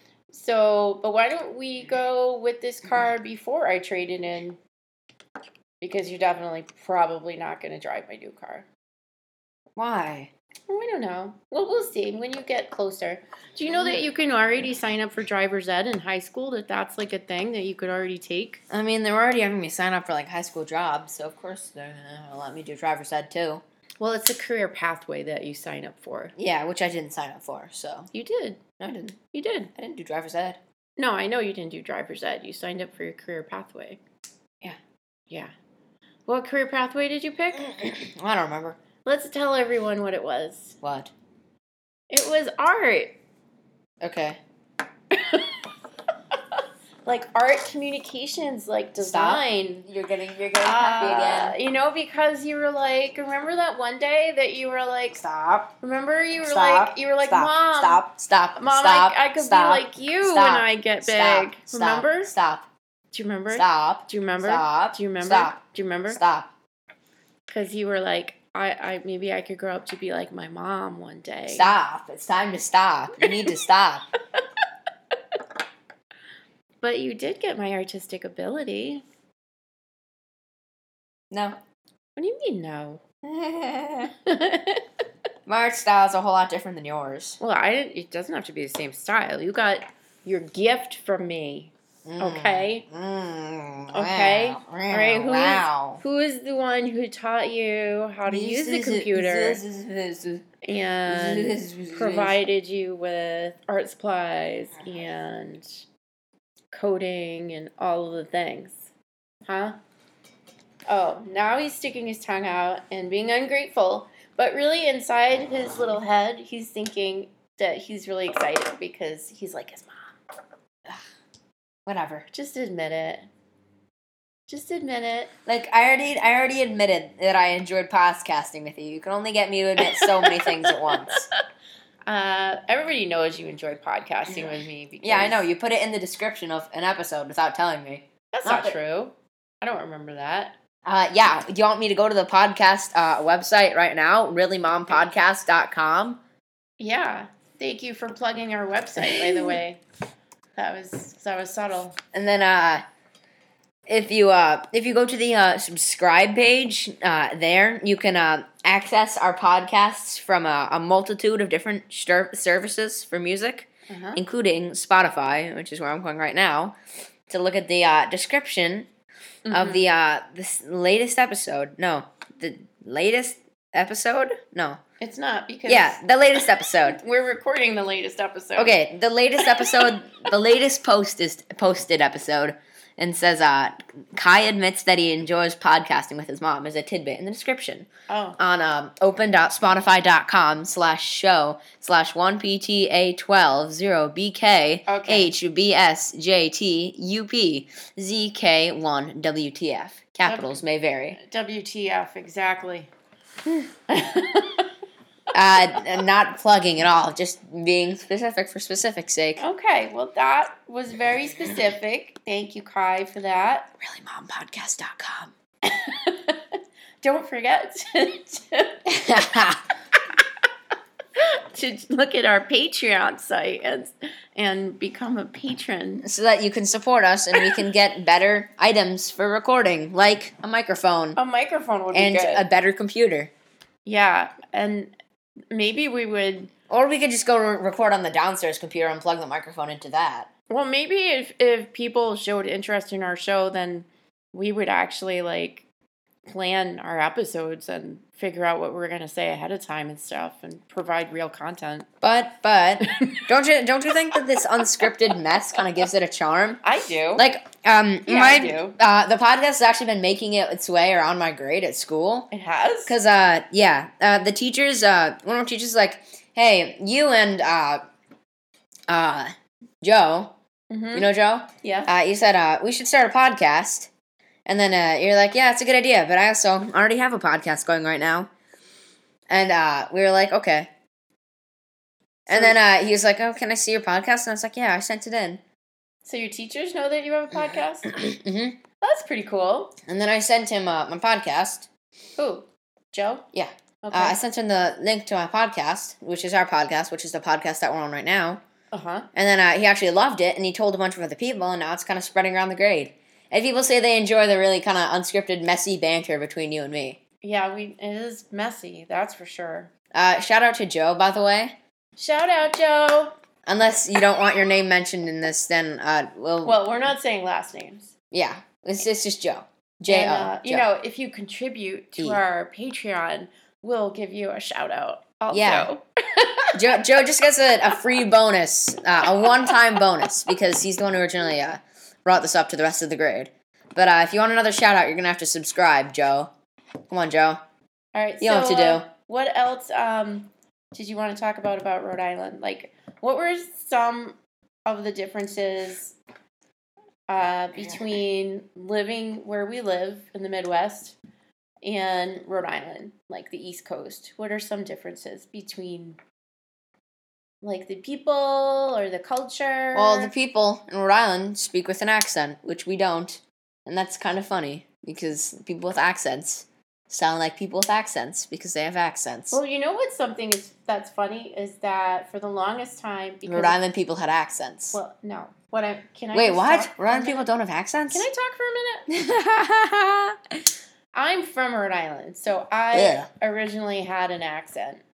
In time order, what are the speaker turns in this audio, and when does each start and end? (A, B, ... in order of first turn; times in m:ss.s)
0:00.3-0:04.6 A
0:05.8-0:08.7 A
0:09.8-0:10.3 B
0:10.7-0:18.6 A
0:18.7-0:23.6 B
0:24.0-0:26.3 A
0:26.4-0:28.1 B
0:28.1-0:28.6 A
0:28.8-0:29.2 B
0:29.3-0:29.7 A
0:29.7-0:30.6 B
0:31.0-0:34.0 A
0:36.3-0:37.7 A
0:37.6-0:38.8 B
0:39.0-0:40.8 A
0:40.8-0:41.1 B
0:42.1-0:43.2 A
0:44.0-0:44.4 B
0:45.1-0:45.6 A
0:46.3-0:49.9 A
0:49.0-0:51.6 B
0:50.6-0:55.2 A
0:55.1-0:55.7 B
0:55.8-1:02.3 A
0:56.4-1:02.6 B
1:03.1-1:06.2 A
1:03.5-1:05.6 B
1:06.1-1:06.5 B
1:07.5-1:11.7 A
1:11.5-1:14.0 B
1:13.2-1:13.5 A
1:16.8-1:19.0 A
1:21.3-1:21.6 B
1:22.2-1:23.0 A
1:23.2-1:24.1 B
1:24.1-1:24.8 A
1:25.4-1:27.4 B
1:27.4-1:32.8 A
1:32.0-1:36.0 B
1:33.9-1:39.6 A
1:38.3-1:40.4 B
1:40.6-1:45.8 A
1:41.1-1:42.4 B
1:46.7-1:48.9 A
1:49.4-1:49.8 A
1:50.9-2:00.1 A
2:01.8-2:02.3 B
2:02.3-2:03.2 A
2:04.5-2:05.3 A
2:05.4-2:11.3 B
2:09.8-2:11.2 A
2:12.0-2:15.4 A
2:15.0-2:18.8 B
2:18.3-2:20.5 A
2:20.8-2:26.2 B
2:26.8-2:29.8 A
2:29.0-2:29.6 B
2:30.6-2:32.0 A
2:32.1-2:32.8 B
2:33.9-2:46.8 B
2:43.9-2:44.2 A
2:47.3-2:48.9 B
2:49.4-2:49.8 A
2:49.5-2:54.8 B
2:55.0-2:56.0 A
2:55.7-2:57.0 B
2:56.8-2:58.8 A
2:58.6-3:21.2 B
2:59.4-2:59.9 A
3:08.1-3:08.4 A
3:14.8-3:15.3 A
3:20.2-3:20.6 A
3:21.1-3:22.9 A
3:23.9-3:24.7 A
3:25.3-3:29.4 B
3:29.4-3:33.7 A
3:33.8-3:35.3 B
3:35.6-3:38.9 A
3:38.8-3:39.6 B
3:41.2-3:46.1 A
3:46.0-3:51.2 B
3:51.2-3:52.4 A
3:51.9-3:53.3 B
3:53.8-3:54.9 A
3:55.5-3:56.5 A
3:56.7-4:00.3 B
4:00.5-4:05.6 A
4:06.3-4:11.9 A
4:12.0-4:16.6 B
4:12.8-4:13.2 A
4:16.6-4:17.2 A
4:17.1-4:22.3 B
4:18.0-4:18.8 A
4:22.3-4:23.0 A
4:22.9-4:27.8 B
4:28.9-4:30.3 B
4:30.7-4:31.1 A
4:30.9-4:33.9 B
4:31.6-4:31.9 A
4:34.4-4:38.3 B
4:39.3-4:40.7 B
4:42.3-4:45.4 B
4:42.3-4:42.6 A
4:46.0-4:47.9 A
4:47.9-4:48.6 B
4:48.8-4:49.8 A
4:49.8-4:51.7 B
4:52.2-4:53.3 A
4:53.3-4:58.4 B
4:53.8-4:54.2 A
4:58.7-4:59.1 A
4:59.1-5:07.0 B
5:07.2-5:09.7 A
5:09.9-5:11.5 B
5:12.0-5:13.1 A
5:13.4-5:16.6 B
5:16.4-5:17.9 A
5:18.1-5:20.6 B
5:19.9-5:26.7 A
5:22.0-5:22.2 B
5:25.3-5:25.7 B
5:26.5-5:36.3 B
5:29.2-5:29.8 A
5:36.9-5:37.4 B
5:37.9-5:46.0 A
5:38.2-5:38.8 B
5:47.1-5:51.0 A
5:51.6-5:56.0 A
5:57.4-6:00.1 A
5:59.7-6:09.4 B
6:09.3-6:13.6 A
6:13.3-6:14.8 B
6:14.7-6:17.3 A
6:16.1-6:18.1 B
6:17.9-6:18.9 A
6:18.9-6:20.4 B
6:20.9-6:24.8 A
6:22.7-6:23.1 B